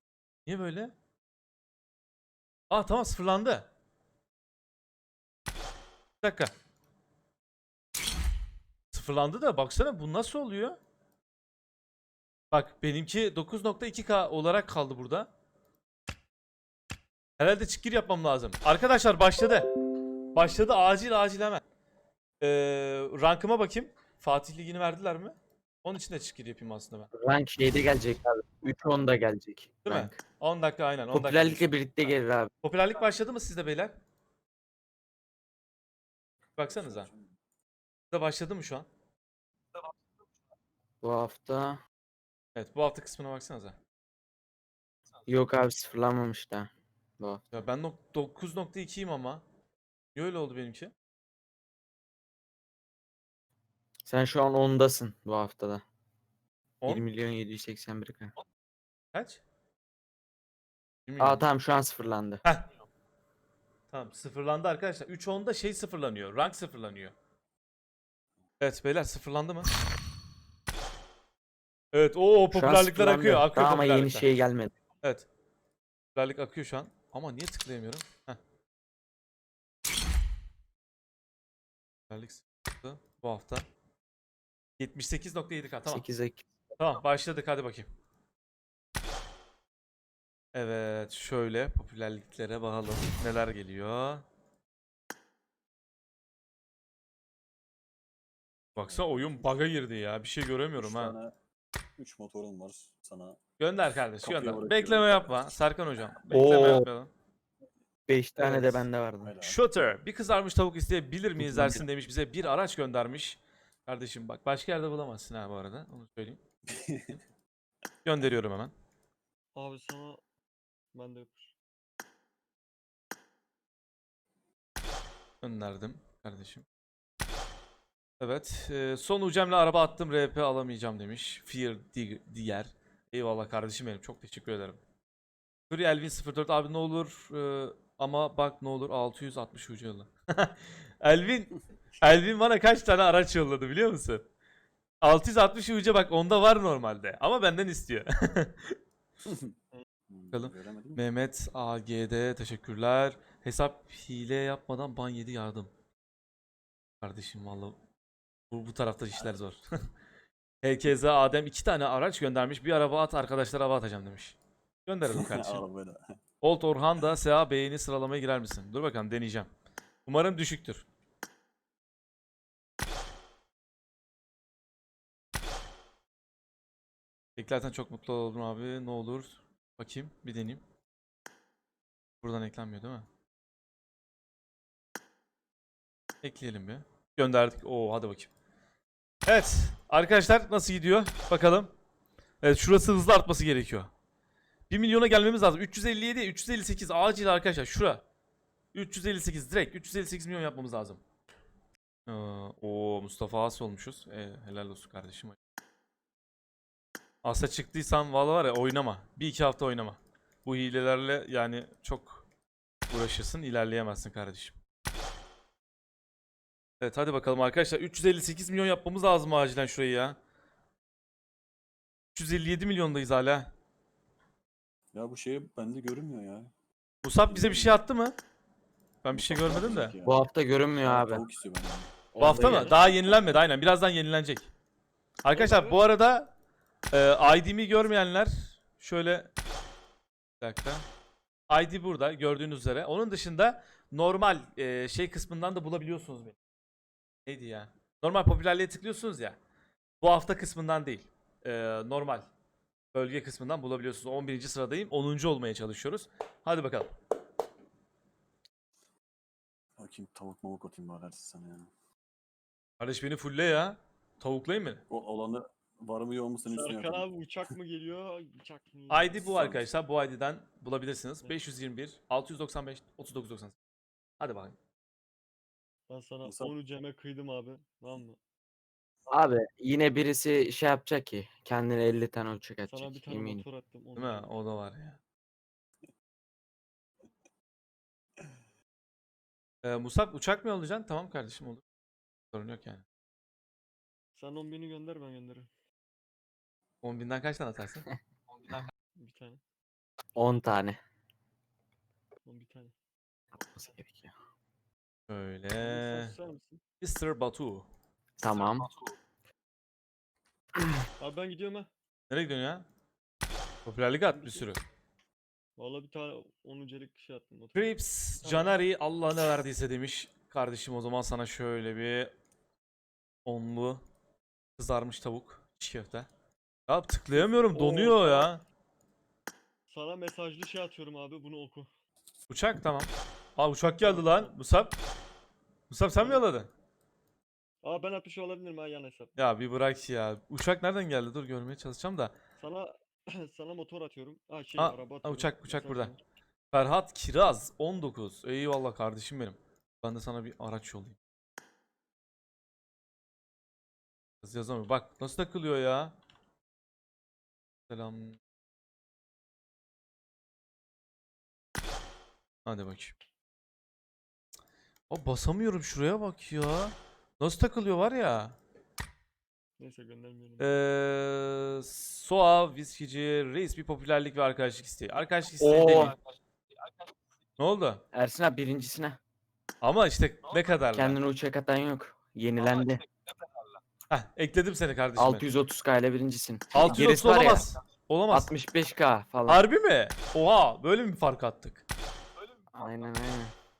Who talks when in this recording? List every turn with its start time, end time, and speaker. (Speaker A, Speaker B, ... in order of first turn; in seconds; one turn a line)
Speaker A: 0.5-0.9
Speaker A: 2.7-3.7
Speaker A: 6.2-6.5
Speaker A: 8.9-10.8
Speaker A: 12.5-15.3
Speaker A: 17.4-19.7
Speaker A: 20.3-21.6
Speaker A: 22.4-27.1
Speaker B: 27.2-30.2
Speaker A: 29.8-34.0
Speaker B: 31.1-32.5
Speaker A: 36.6-37.1
Speaker C: 36.7-37.4
Speaker A: 38.1-38.9
Speaker B: 41.0-41.8
Speaker A: 42.5-43.8
Speaker B: 45.3-47.5
Speaker A: 47.5-49.4
Speaker A: 50.1-50.9
Speaker B: 54.1-55.8
Speaker B: 56.9-58.3
Speaker A: 59.1-59.4
Speaker A: 61.1-61.5
Speaker B: 61.2-62.4
Speaker A: 63.9-67.2
Speaker A: 68.6-69.7
Speaker A: 71.9-74.3
Speaker B: 72.5-74.8
Speaker A: 75.0-75.3
Speaker A: 76.2-78.4
Speaker A: 82.1-83.7
Speaker A: 84.8-86.1
Speaker B: 85.8-86.5
Speaker A: 86.8-87.9
Speaker A: 90.5-94.2
Speaker A: 98.8-101.2
Speaker C: 98.8-99.2
Speaker C: 100.8-101.3
Speaker C: 102.0-103.4
Speaker A: 103.6-107.1
Speaker C: 104.2-105.6
Speaker B: 106.3-106.9
Speaker B: 108.1-109.3
Speaker A: 108.4-108.8
Speaker C: 109.2-109.9
Speaker A: 109.4-116.4
Speaker B: 111.4-111.8
Speaker C: 116.7-117.2
Speaker A: 118.0-118.7
Speaker D: 119.5-120.2
Speaker D: 120.9-121.5
Speaker A: 125.4-126.7
Speaker A: 128.2-134.8
Speaker A: 135.7-144.2
Speaker A: 145.0-148.8
Speaker C: 149.2-149.5
Speaker C: 150.1-151.0
Speaker A: 150.3-155.7
Speaker A: 157.0-157.8
Speaker A: 158.5-159.9
Speaker A: 160.6-165.6
Speaker C: 165.1-166.2
Speaker A: 166.4-169.5
Speaker A: 170.1-170.9
Speaker A: 177.4-180.6
Speaker A: 182.2-183.1
Speaker A: 186.2-188.3
Speaker A: 189.3-191.7
Speaker A: 192.4-193.9
Speaker A: 194.7-198.0
Speaker A: 198.7-201.0
Speaker A: 202.1-205.4
Speaker A: 207.2-212.3
Speaker A: 212.9-214.6
Speaker A: 216.8-220.2
Speaker A: 222.2-223.5
Speaker C: 224.9-226.5
Speaker A: 227.0-228.2
Speaker C: 227.3-227.8
Speaker A: 229.0-229.9
Speaker C: 229.1-230.3
Speaker B: 230.0-231.2
Speaker C: 230.8-232.7
Speaker B: 232.2-232.8
Speaker A: 232.2-234.5
Speaker A: 235.2-236.3
Speaker D: 235.3-235.8
Speaker A: 236.9-239.3
Speaker A: 240.4-240.9
Speaker A: 241.5-246.4
Speaker A: 247.3-249.4
Speaker A: 250.0-252.3
Speaker A: 252.9-256.9
Speaker C: 259.8-261.7
Speaker A: 262.8-264.8
Speaker C: 264.9-267.1
Speaker D: 266.5-269.4
Speaker A: 268.9-273.6
Speaker C: 269.3-269.6
Speaker A: 274.2-274.6
Speaker D: 275.9-278.2
Speaker C: 276.2-276.5
Speaker B: 279.1-283.4
Speaker D: 282.7-284.4
Speaker A: 284.0-285.0
Speaker A: 289.6-291.6
Speaker A: 292.3-292.9
Speaker D: 294.2-295.5
Speaker A: 296.8-297.9
Speaker D: 299.0-299.4
Speaker B: 300.2-300.8
Speaker D: 302.3-302.7
Speaker B: 303.3-304.1
Speaker A: 305.1-306.1
Speaker D: 305.6-306.6
Speaker A: 306.8-307.7
Speaker B: 308.2-308.7
Speaker D: 311.0-311.7
Speaker A: 312.1-312.7
Speaker A: 313.6-314.6
Speaker D: 314.1-314.5
Speaker D: 315.6-318.6
Speaker A: 317.6-322.1
Speaker A: 323.2-323.8
Speaker A: 324.6-326.1
Speaker A: 326.7-328.4
Speaker D: 327.1-328.3
Speaker D: 329.7-331.7
Speaker A: 332.3-334.8
Speaker D: 333.8-334.3
Speaker A: 335.7-336.5
Speaker D: 336.0-336.2
Speaker D: 337.6-339.1
Speaker A: 339.2-342.1
Speaker D: 342.4-346.0
Speaker A: 344.6-345.9
Speaker A: 346.5-351.0
Speaker A: 354.2-356.0
Speaker A: 357.7-358.2
Speaker A: 362.4-362.9
Speaker A: 364.9-368.4
Speaker D: 369.6-370.6
Speaker A: 370.4-376.0
Speaker B: 375.4-375.9
Speaker A: 377.4-377.8
Speaker B: 377.9-379.0
Speaker A: 379.6-381.0
Speaker B: 380.7-382.9
Speaker A: 383.9-385.3
Speaker B: 385.0-387.6
Speaker A: 386.5-388.3
Speaker B: 388.1-389.4
Speaker A: 389.3-391.6
Speaker B: 392.5-393.3